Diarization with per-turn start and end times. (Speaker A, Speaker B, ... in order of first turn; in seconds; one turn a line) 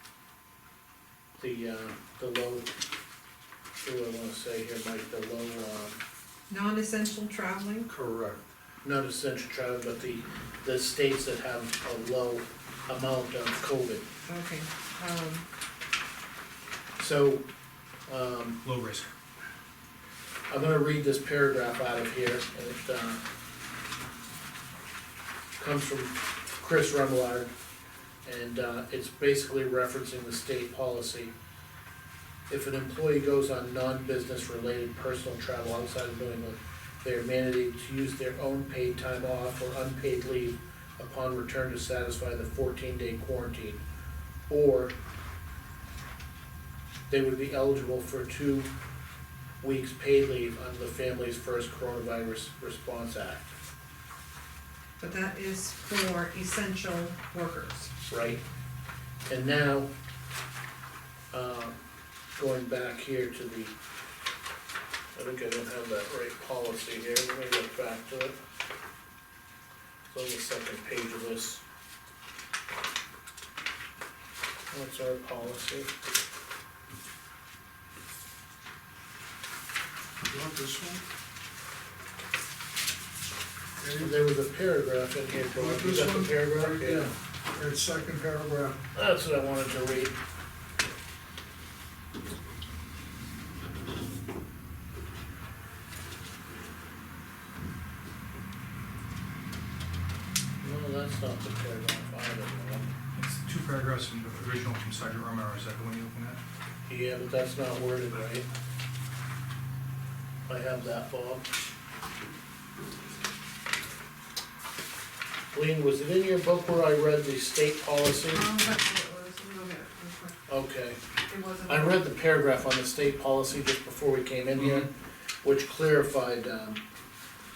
Speaker A: 1.4-2.7
Speaker A: 3.8-6.0
Speaker B: 6.5-7.9
Speaker C: 8.0-8.4
Speaker A: 8.8-14.0
Speaker B: 14.3-15.5
Speaker A: 17.0-17.4
Speaker A: 18.1-18.6
Speaker D: 18.6-19.1
Speaker A: 20.5-23.2
Speaker A: 25.6-27.5
Speaker A: 28.2-31.3
Speaker A: 32.5-43.8
Speaker A: 44.5-44.9
Speaker A: 47.1-48.7
Speaker A: 49.6-53.5
Speaker B: 55.0-57.9
Speaker A: 58.1-58.4
Speaker A: 59.3-59.9
Speaker A: 61.3-61.8
Speaker A: 62.4-63.7
Speaker A: 65.2-68.3
Speaker A: 70.1-71.6
Speaker A: 74.7-75.9
Speaker C: 80.2-81.0
Speaker C: 83.8-84.2
Speaker A: 84.0-87.1
Speaker C: 85.5-88.8
Speaker A: 88.9-90.1
Speaker A: 100.6-102.9
Speaker D: 103.2-106.4
Speaker A: 106.9-108.5
Speaker A: 110.5-111.5
Speaker A: 115.5-118.5
Speaker B: 118.3-120.4
Speaker A: 120.5-121.0
Speaker B: 121.3-122.0
Speaker A: 121.7-124.9
Speaker D: 124.6-124.9
Speaker A: 125.4-126.8